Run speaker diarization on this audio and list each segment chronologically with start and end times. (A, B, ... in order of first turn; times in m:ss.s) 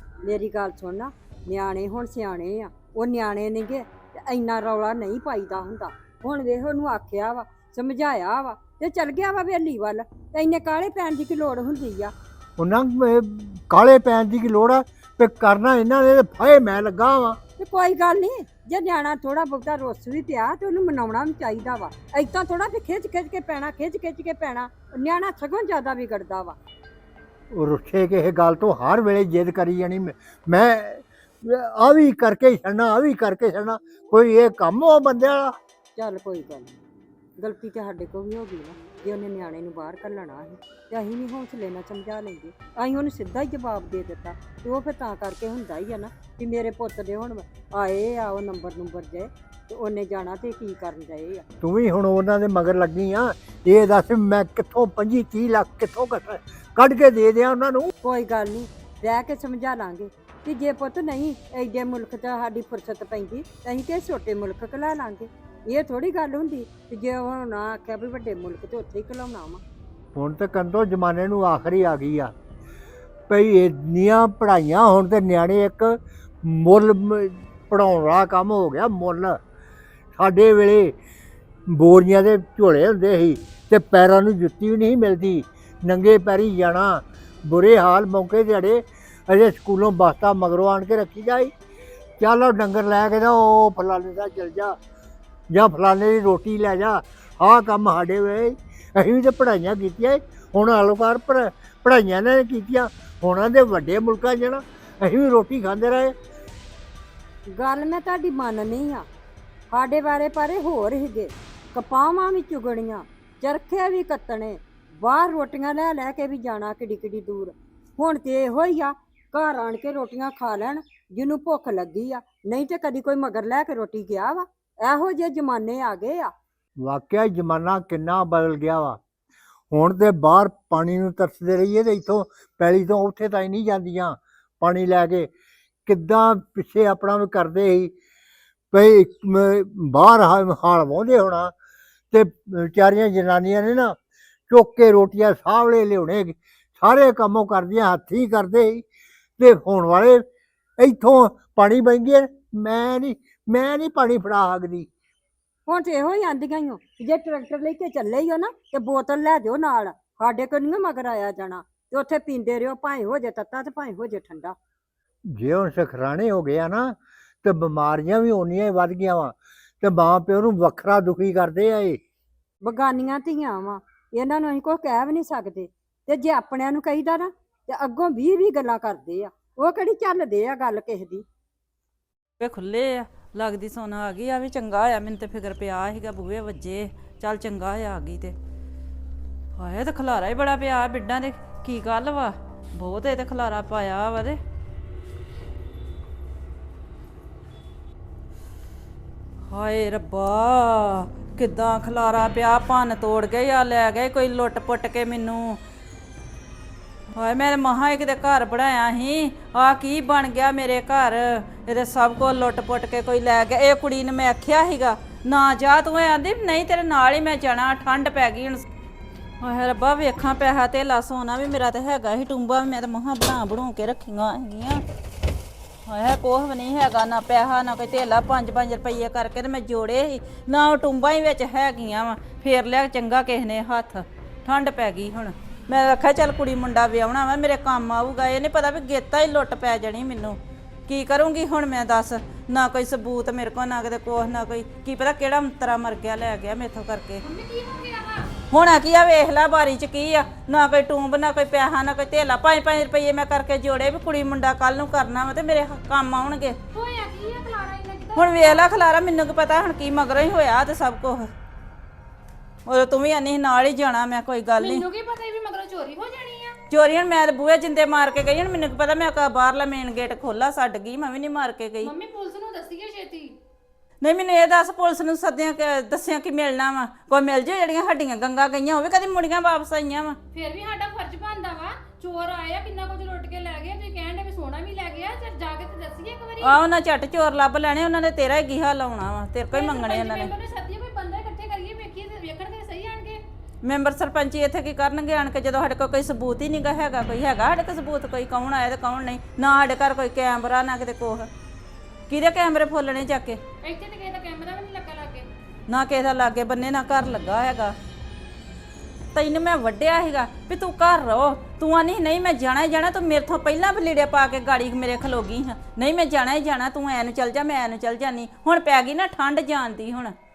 0:00.2-0:12.1 A
0:12.6-0:17.4 B
0:17.6-0:26.6 A
0:27.5-0:35.5 B
0:36.0-0:36.7 A
0:37.4-0:51.4 A
0:51.6-0:57.9 B
0:58.0-1:09.6 A
1:10.1-1:12.3 B
1:13.3-1:19.4 B
1:20.2-1:20.9 B
1:21.7-1:31.5 B
1:32.2-1:34.7 B
1:35.5-1:46.1 B
1:47.5-1:49.0 A
1:49.7-2:06.3 A
2:06.8-2:09.0 B
2:09.7-2:15.3 B
2:15.8-2:17.9 B
2:18.7-2:21.5 B
2:22.1-2:24.0 B
2:24.5-2:28.8 B
2:29.4-2:30.2 B
2:30.8-2:34.9 B
2:35.7-2:44.6 A
2:45.3-2:52.0 B
2:52.6-3:01.2 A
3:02.4-3:08.3 C
3:09.6-3:14.4 C
3:19.5-3:25.6 C
3:27.1-3:38.6 C
3:39.4-3:44.8 C
3:45.9-4:07.2 C
4:07.2-4:08.3 D
4:08.5-4:16.6 C
4:16.7-4:18.7 D
4:18.2-4:21.2 C
4:22.6-4:24.8 C
4:24.6-4:26.6 D
4:26.7-4:31.9 C
4:31.8-4:33.3 D
4:34.0-4:40.2 C
4:40.3-4:46.6 D
4:46.4-4:50.3 C
4:49.5-4:53.2 D
4:53.6-5:01.3 C
5:02.1-5:03.4 C
5:03.6-5:05.3 D
5:05.7-5:07.7 C
5:09.1-5:20.1 C